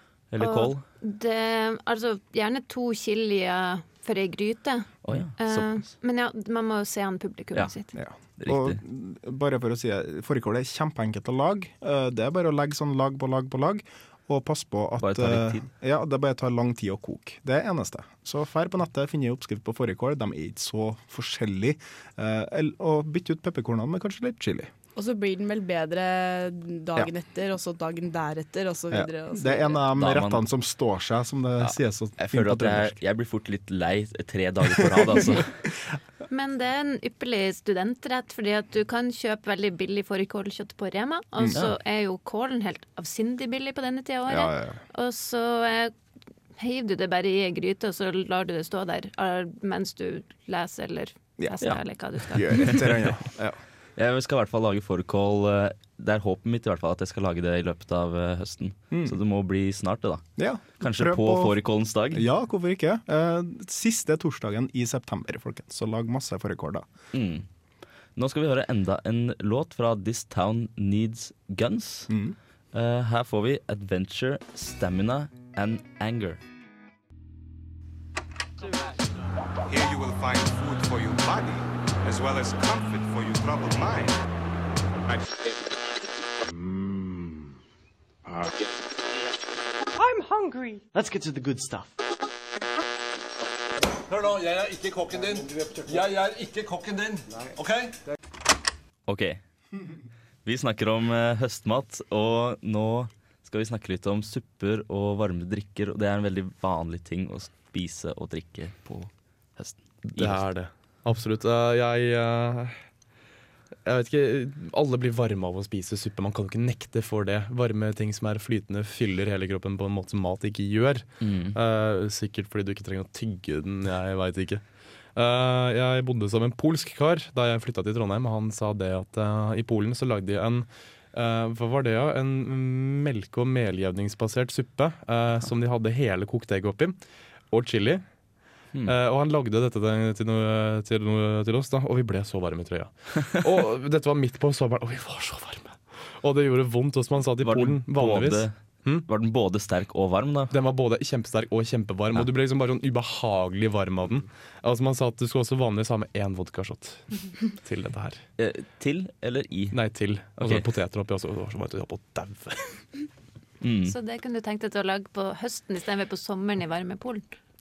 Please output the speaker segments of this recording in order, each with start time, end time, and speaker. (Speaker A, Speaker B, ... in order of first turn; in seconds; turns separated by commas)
Speaker A: 0.3-0.8, Speaker B: 0.4-7.9, Speaker A: 5.0-5.9, Speaker C: 7.9-24.7, Speaker A: 8.4-8.8, Speaker A: 15.0-15.7, Speaker D: 24.9-29.8, Speaker C: 28.9-33.0, Speaker A: 30.0-30.4, Speaker A: 32.2-35.6, Speaker C: 34.8-35.4, Speaker B: 36.3-45.9, Speaker C: 44.3-44.8, Speaker B: 46.6-52.9, Speaker C: 52.3-53.6, Speaker A: 52.5-52.8, Speaker A: 54.0-62.2, Speaker C: 58.9-59.2, Speaker C: 60.4-61.6, Speaker C: 62.1-66.9, Speaker A: 67.1-67.5, Speaker A: 68.2-72.1, Speaker C: 72.1-72.4, Speaker A: 72.7-76.4, Speaker E: 79.7-84.2, Speaker E: 85.1-85.5, Speaker F: 90.0-91.9, Speaker G: 94.1-98.0, Speaker A: 99.1-99.4, Speaker A: 100.5-110.5, Speaker H: 110.0-112.8, Speaker H: 113.8-137.0, Speaker A: 121.2-121.6, Speaker H: 137.5-138.0, Speaker H: 138.8-149.1, Speaker A: 147.4-150.5, Speaker H: 150.5-158.2, Speaker A: 158.4-159.8, Speaker H: 159.7-162.8, Speaker A: 160.3-160.7, Speaker A: 163.6-163.9, Speaker B: 163.9-167.3